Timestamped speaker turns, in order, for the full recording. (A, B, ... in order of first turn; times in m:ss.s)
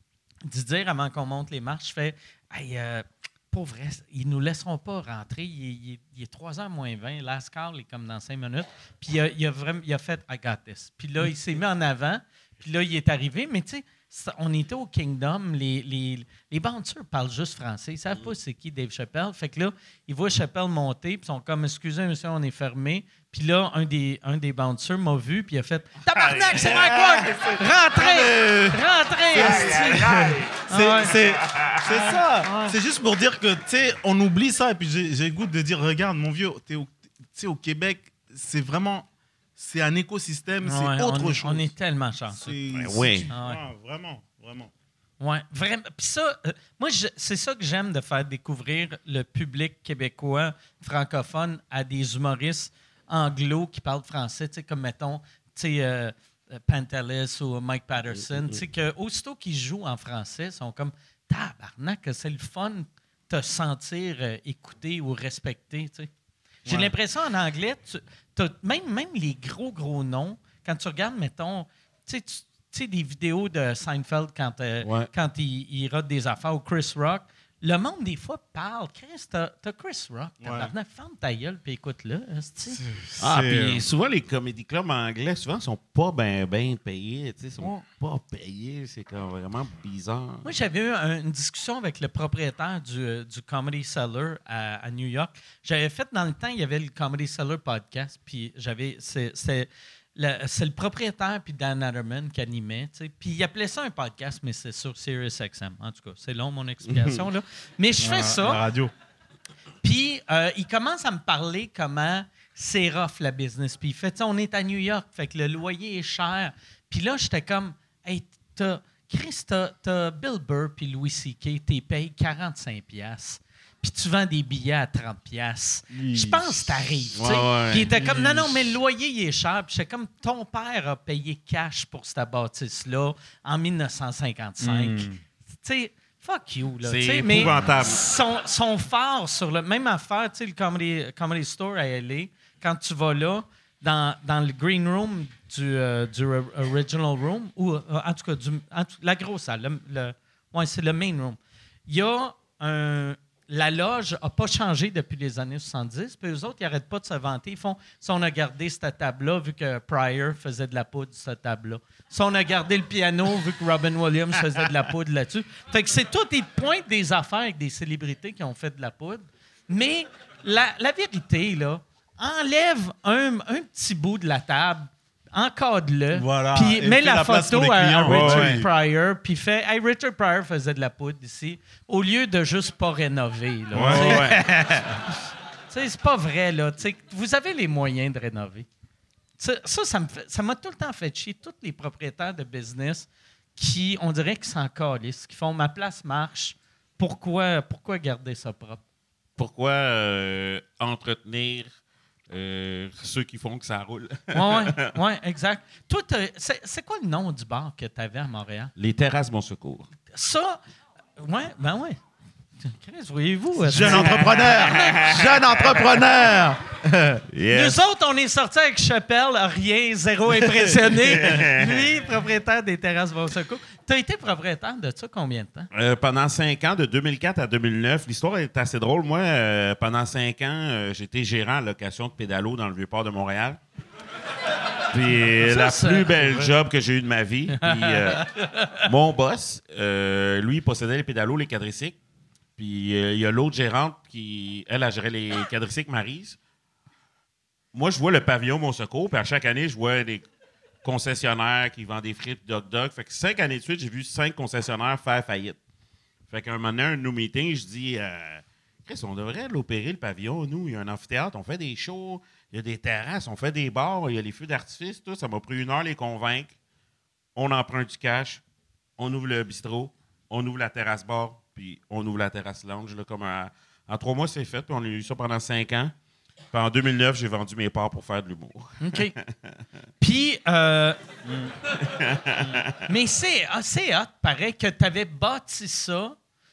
0:00.5-0:31.1 A
0:26.2-0:26.8 B
0:26.2-0:28.8 C
0:28.2-0:28.6 B
0:29.3-0:31.8 B
0:29.3-0:41.7 C
0:32.0-0:32.8 A
0:40.6-0:42.4 A
0:42.4-0:44.7 C
0:42.7-0:43.3 B
0:43.3-0:43.6 A
0:45.2-1:06.1 A
1:06.7-1:06.9 C
1:06.7-1:22.8 A
1:14.8-1:15.1 B
1:20.4-1:20.7 C
1:22.8-1:23.8 C
1:23.2-1:30.5 B
1:30.4-1:48.6 A
1:46.9-1:47.2 B
1:48.0-1:48.9 C
1:49.8-2:15.1 A
2:05.9-2:06.9 C
2:07.2-2:07.9 B
2:07.9-2:08.5 C
2:14.6-2:15.2 C
2:15.6-3:04.3 A
2:16.8-2:18.0 B
2:56.1-2:58.7 C
2:58.1-2:58.7 B
3:03.7-3:05.0 C
3:03.8-3:04.4 B
3:05.7-3:08.7 A
3:09.4-3:18.8 A
3:19.4-3:21.7 B
3:22.3-3:24.9 B
3:24.3-3:28.7 A
3:28.8-3:29.9 B
3:30.1-3:30.6 A
3:31.2-3:32.0 A
3:32.6-3:34.8 A
3:33.6-3:37.2 C
3:33.8-3:35.8 B
3:37.3-3:37.8 B
3:37.5-3:45.7 A
3:41.0-3:41.9 B
3:45.7-3:53.6 B
3:54.9-3:58.3 B
3:55.4-3:56.2 A
3:57.6-3:58.9 A
3:58.8-4:02.0 B
4:02.6-4:06.4 B
4:07.7-4:10.2 B
4:10.8-4:15.6 B
4:16.3-4:26.5 B
4:27.4-4:28.4 B
4:29.0-4:35.9 B
4:36.5-4:39.6 B
4:38.8-4:39.1 A
4:40.0-4:41.0 A
4:41.3-4:41.6 C
4:41.8-4:42.7 B
4:42.9-4:46.2 A